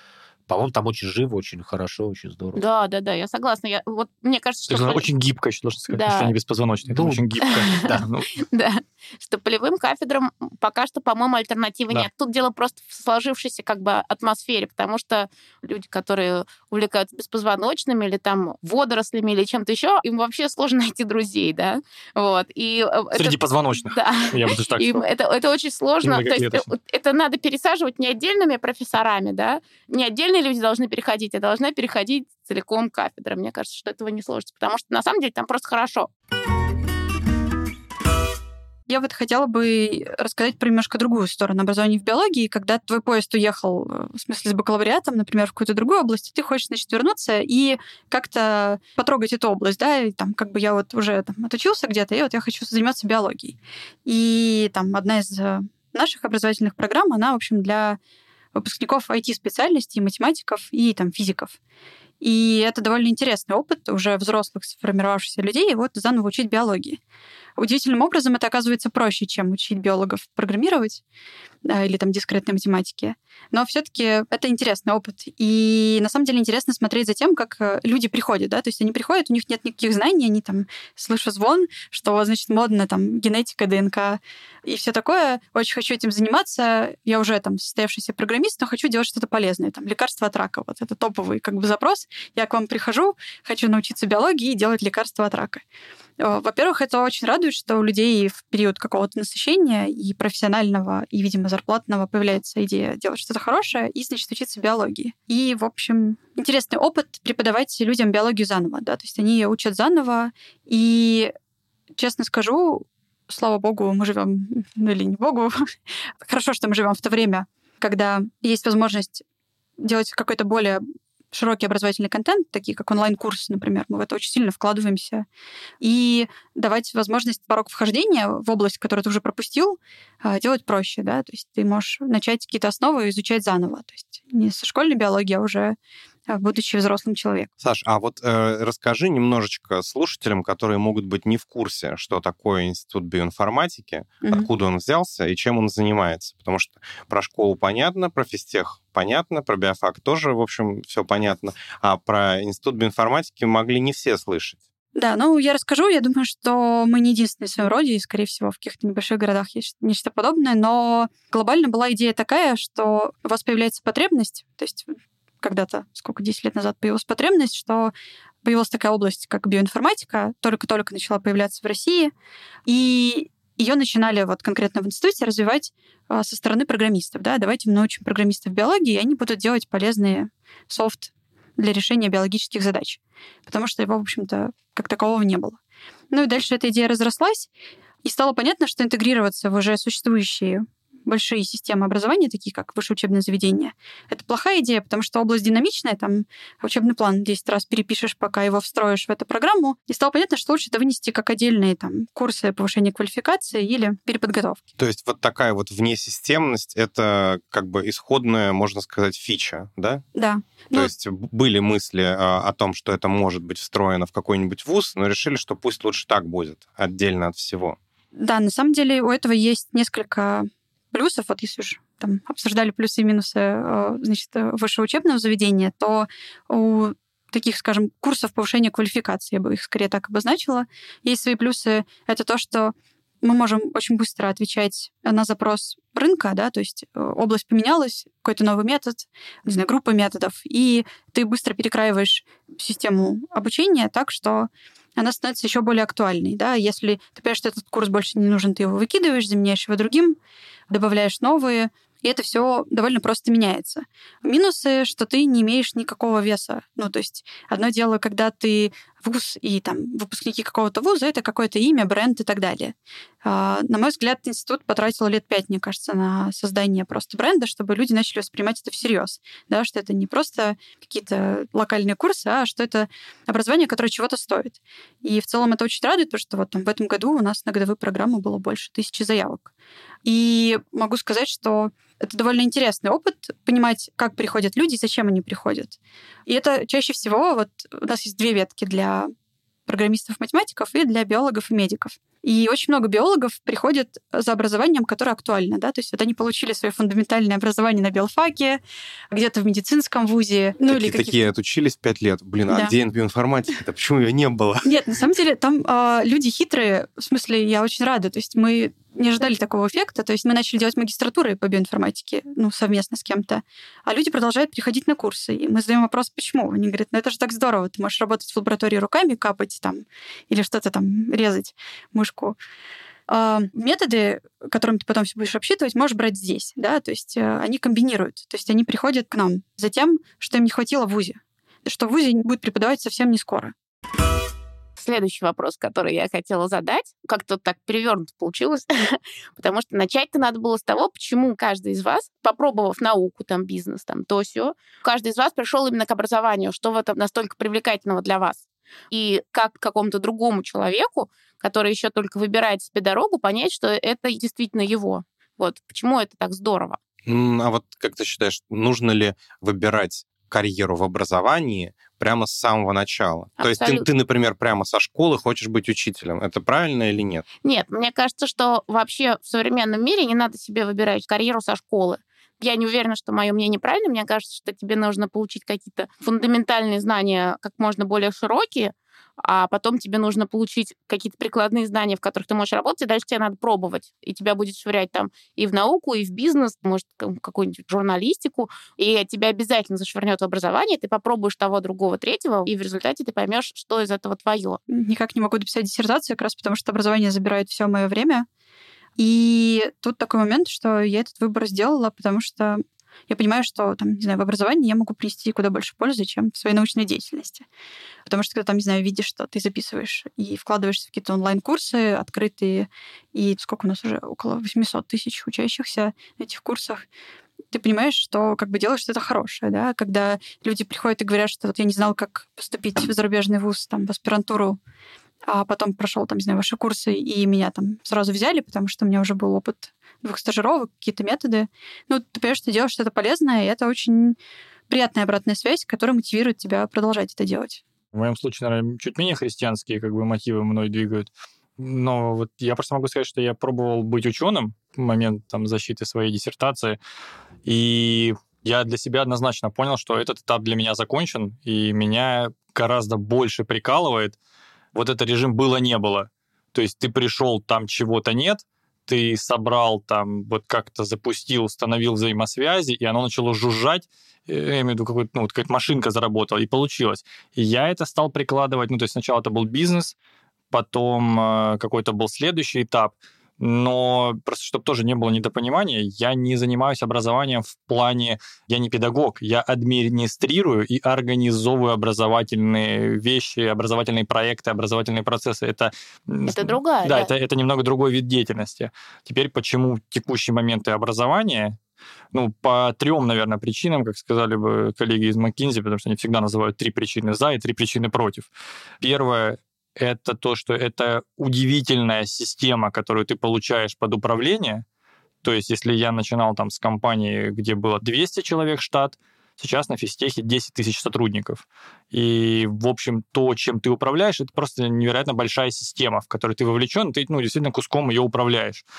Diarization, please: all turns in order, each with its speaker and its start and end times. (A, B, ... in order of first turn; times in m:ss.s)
0:00.5-0:02.6 A
0:02.6-0:05.1 B
0:04.7-0:08.3 C
0:05.9-0:06.3 B
0:06.9-0:08.0 A
0:07.9-0:36.1 B
0:23.1-0:25.0 C
0:26.0-0:26.7 C
0:38.9-0:58.0 D
0:58.6-1:01.6 D
1:02.2-1:07.0 D
1:07.6-1:11.0 D
1:11.6-1:35.6 D
1:36.2-1:51.3 D
1:52.0-1:55.6 D
1:56.2-1:59.2 D
1:59.8-2:05.3 D
2:05.8-2:15.8 D
2:16.3-2:17.5 D
2:17.6-2:34.6 E
2:24.2-2:24.5 D
2:35.0-2:52.1 D
2:52.7-3:05.6 D
3:06.1-3:07.5 D
3:08.0-3:24.7 D
3:24.8-3:30.0 E
3:30.2-3:30.9 D
3:30.7-3:37.8 E
3:38.2-4:10.2 D
4:10.7-4:39.5 D
4:40.0-4:49.1 D
4:49.7-4:58.6 D
4:59.1-5:01.2 D
5:00.7-5:04.7 E
5:02.5-5:02.7 D
5:04.6-5:22.4 D
5:23.1-5:33.5 D
5:34.8-5:56.8 B
5:57.1-6:07.3 E
6:03.4-6:03.9 B
6:07.4-6:34.6 B
6:34.7-6:38.3 D
6:39.0-6:47.4 D
6:48.1-6:56.8 D
6:57.5-7:04.6 D
7:05.3-7:14.2 D
7:14.7-7:17.6 D
7:17.9-7:26.8 C
7:27.4-7:34.2 C
7:34.7-7:50.0 C
7:50.5-8:11.6 C
8:06.3-8:07.1 B
8:12.1-8:18.3 C
8:18.8-8:24.6 C
8:25.2-8:38.6 C